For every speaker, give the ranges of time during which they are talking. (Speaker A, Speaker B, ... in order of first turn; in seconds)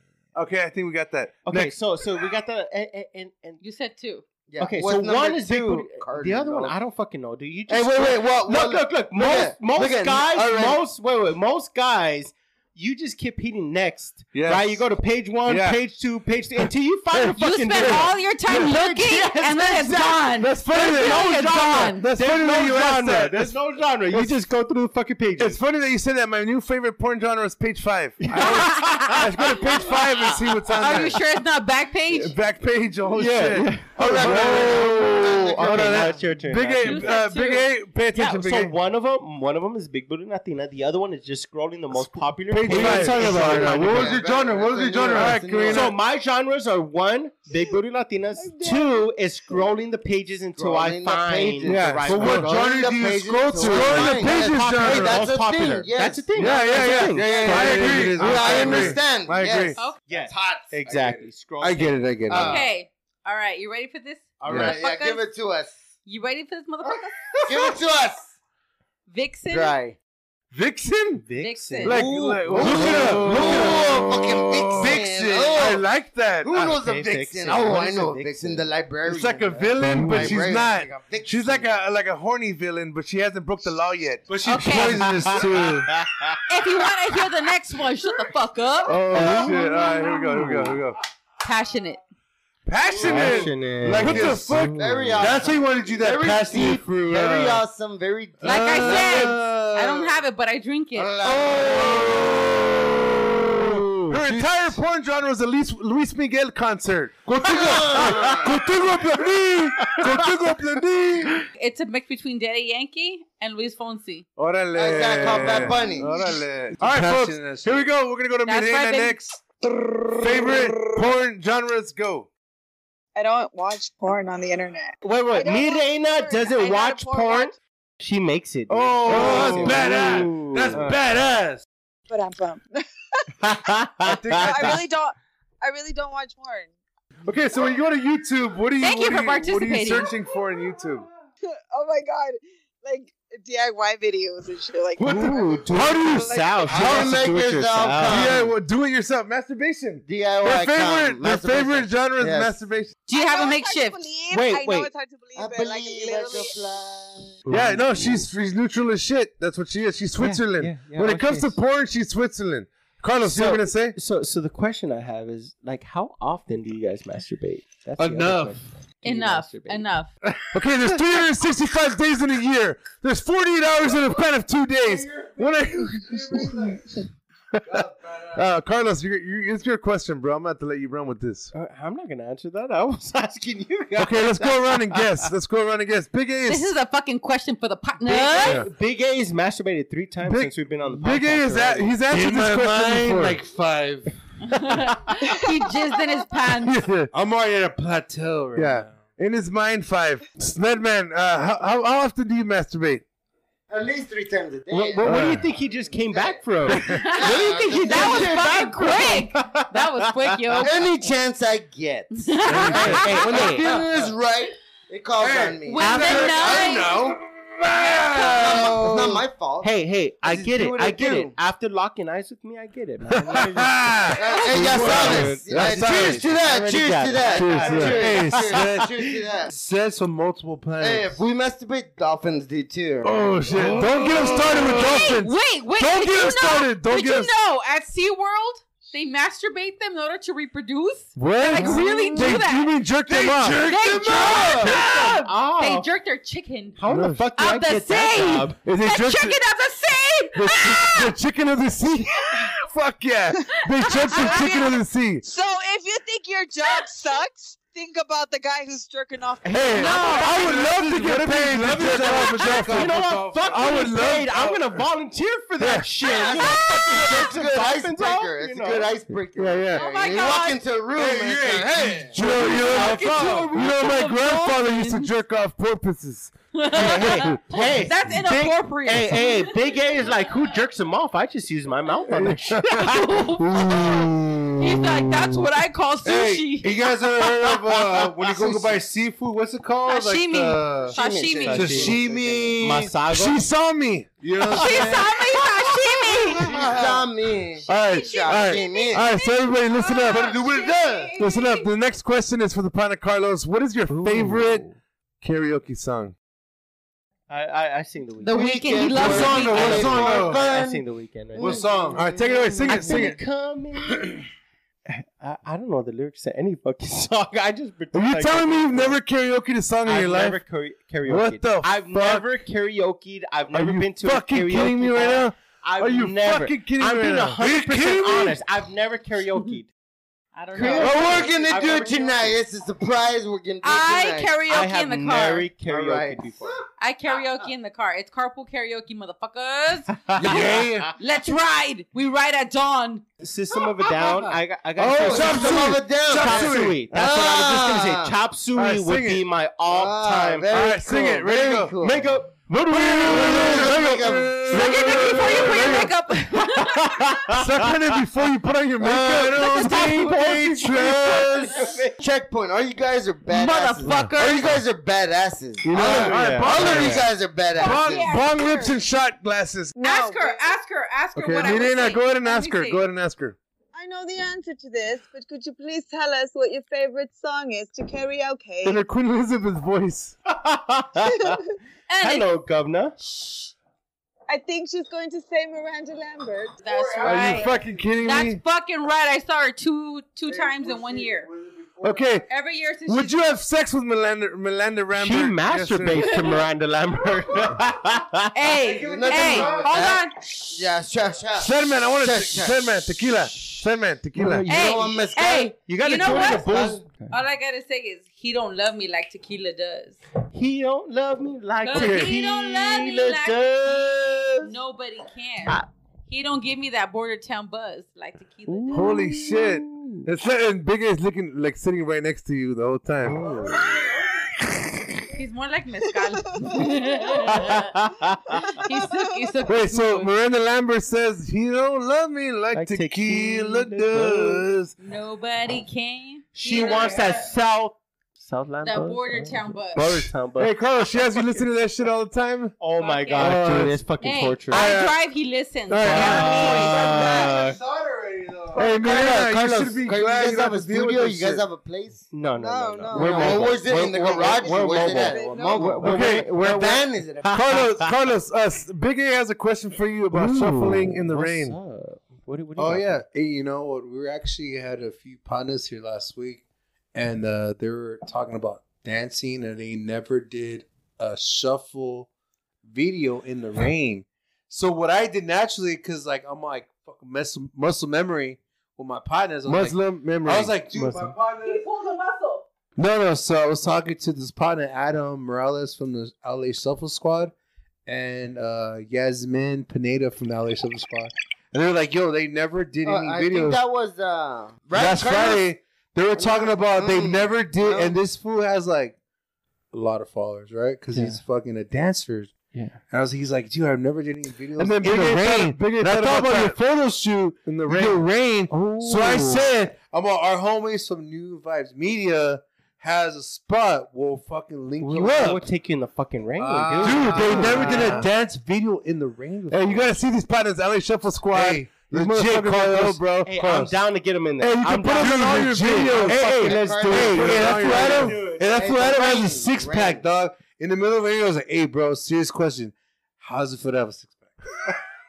Speaker A: 0.3-1.7, 14.3-14.8, 15.4-15.8, 17.1-18.7, 20.4-23.6, 25.4-31.2, 32.1-38.7, 42.6-46.0, 51.6-55.3, 56.3-59.8, 70.5-71.2, 71.8-76.7, 79.0-85.9, 89.0-91.0, 92.7-95.5, 98.5-99.4, 101.3-102.4, 104.1-111.4, 114.4-119.5, 120.1-122.3, 128.7-131.6, 134.0-134.8, 137.2-141.1, 145.1-146.1, 146.7-147.2, 148.0-153.0, 157.5-163.9, 170.5-176.8, 178.3-181.5, 183.9-186.7, 188.4-188.7, 190.2-193.4, 196.6-197.1, 198.6-203.0, 205.0-205.4, 215.8-219.0, 223.2-226.2, 227.5-228.7, 233.0-237.3, 241.3-243.7, 246.9-247.2, 248.6-249.4, 250.3-255.2, 259.6-264.6, 265.6-265.9, 269.4-269.8, 272.0-277.9, 283.5-284.5, 291.5-294.9, 297.7-300.4, 301.1-304.6, 305.2-306.1, 308.9-310.3, 311.8-313.2, 317.9-320.4, 321.0-322.3, 323.5-328.3, 330.8-331.2, 340.2-340.9, 344.9-346.8, 348.5-349.2, 350.5-351.8, 352.7-355.9, 357.3-361.5, 365.6-367.1, 367.6-369.7, 371.1-373.4, 378.6-380.1, 387.0-388.4, 391.8-392.3, 392.9-396.3, 401.4-404.4, 411.7-412.1, 418.7-423.4, 429.4-434.7, 440.4-442.6, 443.1-443.8, 444.5-445.0, 445.7-446.6, 448.5-451.4, 455.8-456.4, 457.3-461.6, 479.4-480.6, 504.6-506.6, 507.6-508.1, 508.8-509.5, 515.0-515.4, 516.8-518.1, 519.5-523.6, 524.6-529.4
Speaker B: 1.4-3.6, 4.6-25.6, 28.2-30.4, 33.2-37.1, 38.1-44.2, 45.7-52.5, 53.6-58.9, 60.1-62.5, 64.5-64.8, 71.2-73.8, 76.6-78.7, 85.0-86.4, 89.1-89.6, 93.0-95.3, 108.0-108.4, 109.8-110.2, 125.0-130.9, 133.4-134.8, 145.0-148.5, 154.3-154.9, 157.6-158.2, 160.2-161.5, 163.2-169.9, 181.5-185.3, 188.0-192.0, 204.7-210.7, 212.6-213.7, 215.9-216.5, 219.6-228.6, 233.5-234.4, 244.2-245.9, 246.8-248.6, 259.4-261.1, 261.6-269.0, 272.2-273.4, 276.7-283.0, 290.9-292.0, 292.6-293.4, 303.9-304.8, 307.3-312.0, 312.7-314.2, 314.9-319.0, 319.8-329.7, 330.5-332.4, 334.5-336.6, 340.0-340.9, 343.2-350.6, 351.8-354.0, 355.5-355.8, 356.5-358.0, 359.4-362.0, 365.7-367.1, 380.3-381.4, 382.0-382.9, 394.9-398.5, 404.1-404.9, 405.6-407.1, 410.3-414.5, 418.5-420.1, 423.0-423.9, 427.3-428.5, 432.5-434.4, 436.4-440.5, 442.6-444.7, 445.9-447.6, 452.1-457.9, 460.6-463.0, 480.7-481.1, 500.9-501.2, 502.5-502.8, 508.5-509.1, 514.8-518.1, 522.3-528.2
Speaker C: 3.6-4.2, 17.3-22.1, 28.3-29.1, 30.7-32.4, 36.8-37.7, 62.3-65.2, 66.0-67.7, 69.1-69.8, 71.4-72.0, 84.4-85.2, 86.5-90.3, 91.4-92.0, 98.4-101.2, 111.5-114.2, 118.5-119.2, 138.8-140.1, 153.1-154.0, 169.0-170.1, 186.4-188.6, 194.4-196.8, 206.8-210.8, 212.1-213.3, 215.6-217.0, 218.0-218.8, 234.6-242.8, 243.5-251.2, 259.8-260.2, 266.2-266.9, 269.7-270.6, 272.7-275.1, 276.5-279.7, 282.6-287.2, 289.8-291.7, 294.5-296.6, 297.7-301.7, 308.2-309.9, 330.3-331.9, 333.6-335.5, 336.8-340.4, 341.0-343.0, 354.5-357.3, 359.4-360.1, 363.3-364.6, 367.6-368.8, 369.8-372.9, 381.9-382.3, 383.0-383.5, 386.6-391.3, 392.3-393.2, 396.0-396.4, 398.3-400.5, 404.5-410.0, 411.6-419.1, 425.1-430.1, 434.8-437.3, 438.6-439.8, 442.7-443.4, 444.0-447.3, 481.4-482.4
Speaker D: 4.5-6.8, 7.7-10.8, 34.0-36.1, 43.3-45.9, 50.5-60.7, 62.3-62.6, 64.4-65.8, 67.4-68.3, 69.5-70.0, 72.3-75.9, 76.4-81.8, 94.7-99.4, 100.9-102.6, 107.4-108.6, 114.7-116.1, 146.7-148.5, 150.0-152.5, 155.3-157.4, 203.7-205.1, 206.0-206.4, 207.0-208.9, 210.6-216.7, 218.3-221.3, 224.1-229.5, 230.8-233.7, 244.1-244.7, 266.0-272.2, 291.0-292.7, 296.4-299.1, 300.1-301.1, 308.3-310.8, 311.4-312.4, 330.6-334.4, 335.6-336.3, 344.8-348.1, 349.7-352.1, 353.0-354.9, 361.9-368.2, 398.8-403.1, 404.4-406.8, 448.6-452.1, 452.8-457.5, 492.8-495.5, 496.1-497.9, 526.1-530.0
Speaker E: 33.1-35.1, 42.5-45.4, 51.7-54.2, 56.8-59.0, 60.9-62.6, 72.1-73.9, 79.8-80.6, 84.3-86.0, 88.9-89.8, 90.4-90.8, 93.0-97.6, 98.7-99.8, 103.7-104.8, 107.5-109.9, 115.1-117.9, 120.3-120.6, 128.9-131.3, 145.7-146.3, 157.5-158.2, 168.0-168.5, 174.8-177.1, 177.7-178.5, 192.1-195.1, 197.1-199.2, 212.5-213.1, 215.2-217.2, 217.8-218.9, 224.5-226.3, 227.3-231.2, 233.2-235.0, 241.2-241.6, 243.1-244.7, 260.0-264.6, 270.9-273.6, 286.0-291.0, 291.5-292.7, 294.2-295.1, 296.5-296.8, 309.1-310.4, 311.4-312.0, 312.7-313.0, 327.4-328.1, 340.2-340.9, 353.0-354.6, 355.1-355.8, 358.8-361.1, 365.7-366.9, 386.6-387.9, 390.2-392.1, 398.6-399.9, 443.4-443.7, 445.8-449.1, 460.1-461.1, 462.6-466.4, 466.9-472.1, 472.6-481.6, 482.8-487.3, 487.9-493.6, 494.7-498.9, 499.7-515.5, 516.4-520.0, 521.3-523.7, 524.4-534.4
Speaker F: 48.4-48.9, 123.1-127.5, 132.1-133.3, 134.3-136.7, 141.4-146.9, 153.1-156.6, 253.4-260.6, 369.8-370.5, 373.7-378.8, 381.0-381.4, 384.3-386.6, 426.4-427.2, 428.6-428.9, 452.4-455.8